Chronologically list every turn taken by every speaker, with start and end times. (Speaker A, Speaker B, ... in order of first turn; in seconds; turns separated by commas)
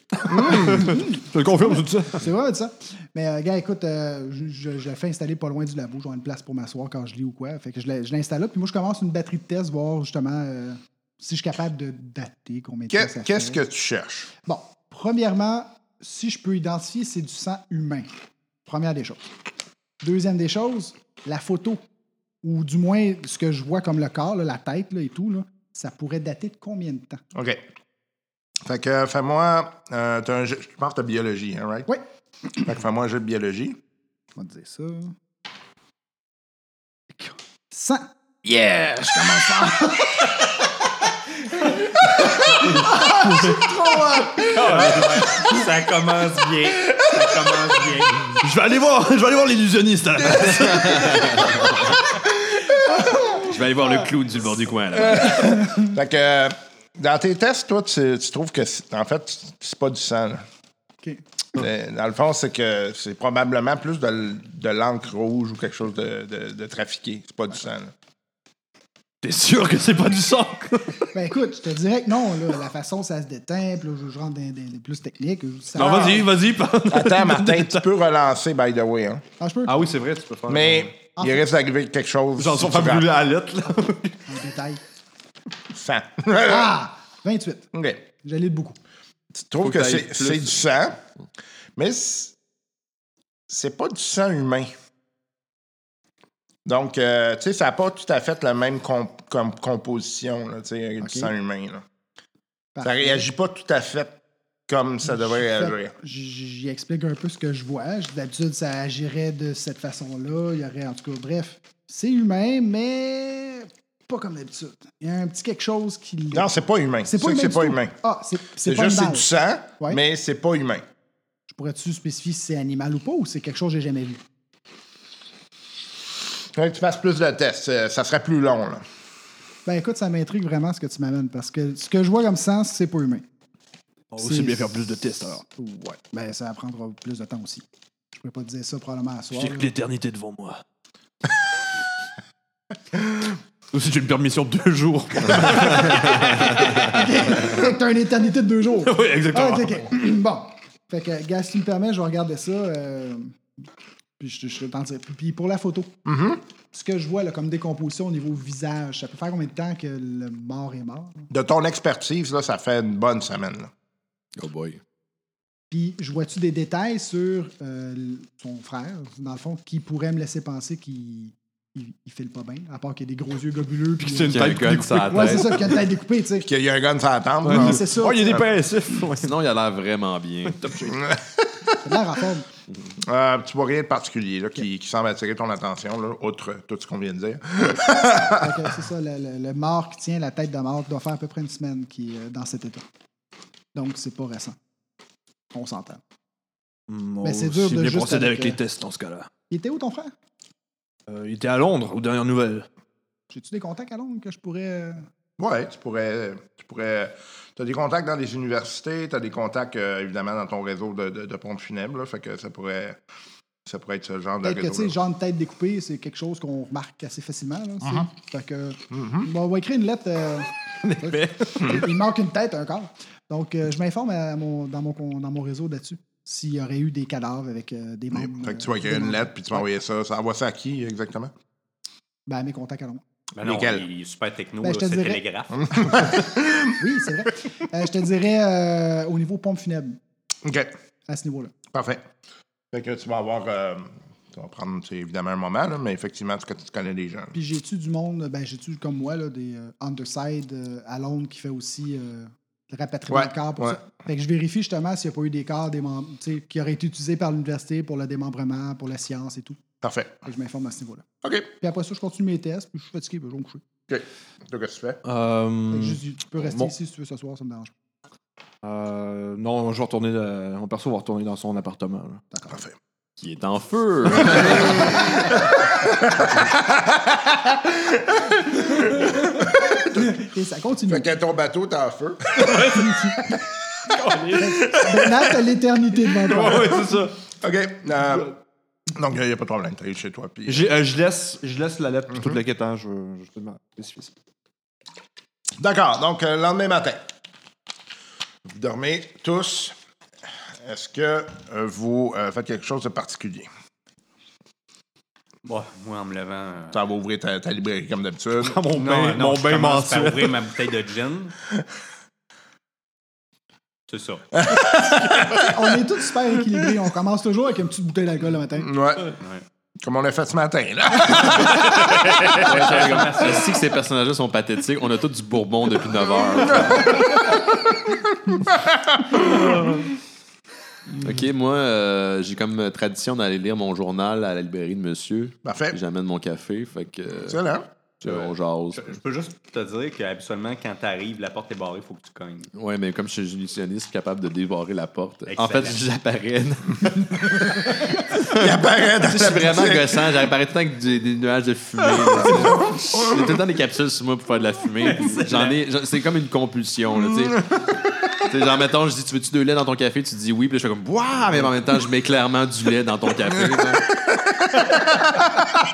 Speaker A: 0.2-2.2, Speaker B: 0.3-0.8, Speaker C: 0.3-13.6, Speaker B: 12.9-14.3, Speaker C: 14.4-18.1, Speaker C: 18.6-19.2, Speaker C: 20.0-21.8, Speaker C: 22.4-27.2, Speaker B: 27.3-27.6, Speaker B: 28.6-31.9, Speaker B: 32.6-33.8, Speaker C: 34.4-35.1, Speaker C: 37.1-40.3, Speaker C: 41.5-44.8, Speaker A: 43.3-43.6, Speaker D: 44.4-48.4, Speaker A: 48.4-52.0, Speaker E: 50.8-51.5, Speaker C: 53.0-53.4, Speaker E: 53.3-55.6, Speaker B: 55.0-60.4, Speaker B: 61.5-67.9, Speaker A: 69.2-71.1, Speaker C: 71.1-76.3, Speaker A: 75.7-77.8, Speaker B: 76.9-79.2, Speaker C: 79.4-79.8, Speaker A: 79.7-80.9, Speaker B: 80.5-83.1, Speaker C: 81.2-81.4, Speaker A: 82.4-84.2, Speaker C: 84.3-84.8, Speaker B: 85.7-86.8, Speaker C: 86.4-87.7, Speaker B: 87.7-88.0, Speaker C: 88.2-88.8, Speaker B: 89.3-91.0, Speaker A: 89.6-90.5, Speaker B: 91.8-92.3, Speaker B: 93.5-94.7, Speaker B: 96.6-101.8, Speaker C: 101.0-101.3, Speaker C: 102.8-103.3, Speaker B: 102.8-105.9, Speaker C: 105.0-119.3, Speaker B: 116.3-117.9, Speaker B: 118.6-120.8, Speaker C: 121.5-124.2, Speaker B: 126.5-128.8, Speaker C: 129.7-133.2, Speaker A: 134.1-135.4, Speaker C: 134.2-139.7, Speaker A: 139.3-140.6, Speaker A: 143.7-147.4, Speaker C: 145.7-153.3, Speaker A: 148.8-149.9, Speaker C: 154.2-155.9, Speaker B: 156.0-156.4, Speaker C: 156.7-161.3, Speaker B: 161.3-163.7, Speaker E: 164.4-164.8, Speaker C: 165.7-176.5, Speaker A: 174.0-175.7, Speaker E: 174.3-175.7, Speaker B: 176.4-178.4, Speaker C: 177.4-178.4, Speaker A: 177.4-179.3, Speaker E: 179.1-180.7, Speaker A: 180.4-181.0, Speaker B: 180.8-181.5, Speaker C: 181.8-182.5, Speaker B: 183.0-188.7, Speaker C: 188.3-192.8, Speaker C: 193.7-194.6, Speaker C: 195.5-196.0, Speaker A: 196.9-199.3, Speaker C: 197.2-198.6, Speaker C: 199.5-200.1, Speaker A: 201.1-202.7, Speaker C: 203.3-205.1, Speaker B: 205.4-213.0, Speaker B: 213.7-214.9, Speaker C: 214.4-229.7, Speaker B: 218.9-219.3, Speaker A: 220.8-221.9, Speaker B: 228.1-231.3, Speaker C: 232.3-233.0, Speaker D: 233.4-235.9, Speaker B: 233.4-233.8, Speaker C: 234.6-235.2, Speaker B: 235.6-236.8, Speaker C: 236.7-240.0, Speaker B: 240.4-240.7, Speaker C: 241.1-241.5, Speaker B: 241.7-242.0, Speaker B: 242.7-247.3, Speaker C: 247.3-259.6, Speaker B: 253.1-253.8, Speaker B: 259.8-260.2, Speaker C: 260.2-261.0, Speaker B: 261.2-261.5, Speaker C: 261.6-263.6, Speaker B: 263.9-265.0, Speaker A: 265.0-266.7, Speaker C: 265.7-267.7, Speaker A: 268.6-272.2, Speaker C: 272.3-272.6, Speaker B: 272.5-272.8, Speaker E: 273.2-275.3, Speaker B: 274.4-280.1, Speaker C: 279.8-281.1, Speaker B: 280.9-282.9, Speaker A: 282.4-282.9, Speaker C: 282.7-283.4, Speaker A: 283.9-284.6, Speaker C: 284.3-286.8, Speaker B: 284.6-285.3, Speaker A: 286.1-287.1, Speaker B: 286.5-286.8, Speaker B: 287.4-288.3, Speaker B: 288.9-290.7, Speaker A: 290.4-294.1, Speaker B: 292.1-292.4, Speaker B: 295.6-297.0, Speaker B: 298.4-299.8, Speaker B: 300.6-303.5, Speaker D: 305.4-306.8, Speaker B: 306.7-308.6, Speaker A: 308.4-310.4, Speaker D: 308.7-311.4, Speaker D: 313.9-314.3, Speaker B: 314.3-315.5, Speaker C: 315.3-318.7, Speaker B: 318.6-319.1, Speaker B: 319.8-322.4, Speaker D: 321.9-323.6, Speaker E: 322.3-327.2, Speaker B: 326.7-329.7, Speaker A: 329.5-329.8, Speaker E: 331.0-337.4, Speaker B: 335.4-335.8, Speaker B: 337.2-337.7, Speaker E: 338.0-339.0, Speaker D: 338.0-342.5, Speaker E: 342.5-357.5, Speaker D: 345.3-345.8, Speaker B: 348.3-350.2, Speaker B: 352.3-353.4, Speaker D: 354.8-355.6, Speaker E: 358.2-363.9, Speaker B: 364.1-365.3